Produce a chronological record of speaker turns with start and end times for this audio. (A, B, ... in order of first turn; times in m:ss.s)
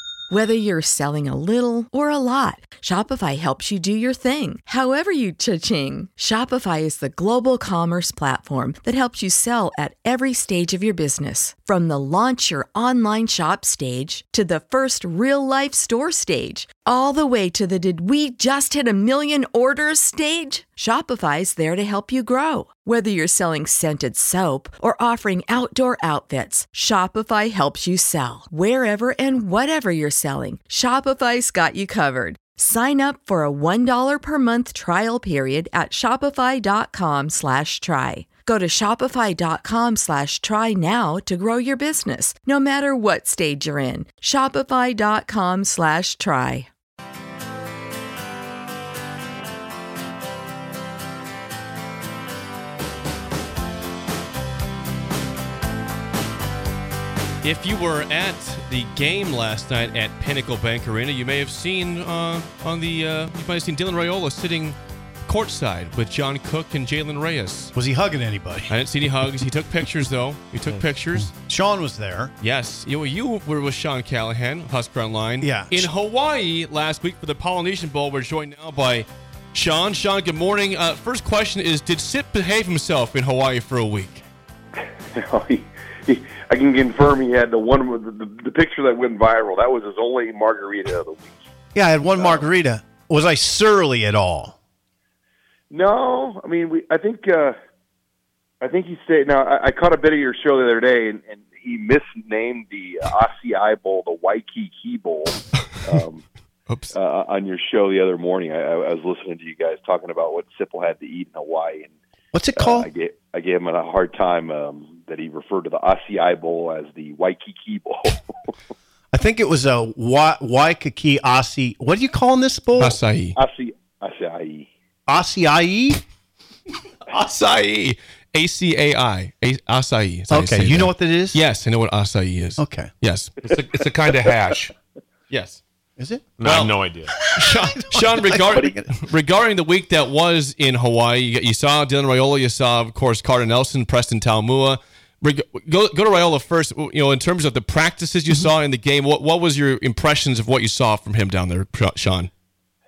0:00.3-0:46.7 A
0:57.4-1:07.7 B
1:07.8-1:08.8 C
1:08.7-1:11.3 B
1:11.1-1:12.3 C
1:12.4-1:24.2 B
1:15.4-1:15.9 C
1:25.1-1:31.4 D
1:31.7-1:34.5 C
1:32.2-1:32.4 D
1:35.7-1:37.6 D
1:38.6-1:46.3 D
1:46.7-1:46.9 B
1:46.9-1:51.9 D
1:52.3-1:52.9 C
1:52.6-1:58.5 D
1:59.1-2:03.0 C
2:02.8-2:03.4 B
2:03.4-2:04.7 D
2:05.1-2:06.0 C
2:07.1-2:13.3 B
2:10.3-2:11.4 C
2:12.6-2:12.9 C
2:13.4-2:14.7 E
2:15.3-2:15.6 B
2:16.0-2:16.3 C
2:16.4-2:17.2 E
2:16.4-2:16.7 B
2:17.1-2:18.9 C
2:17.4-2:32.3 B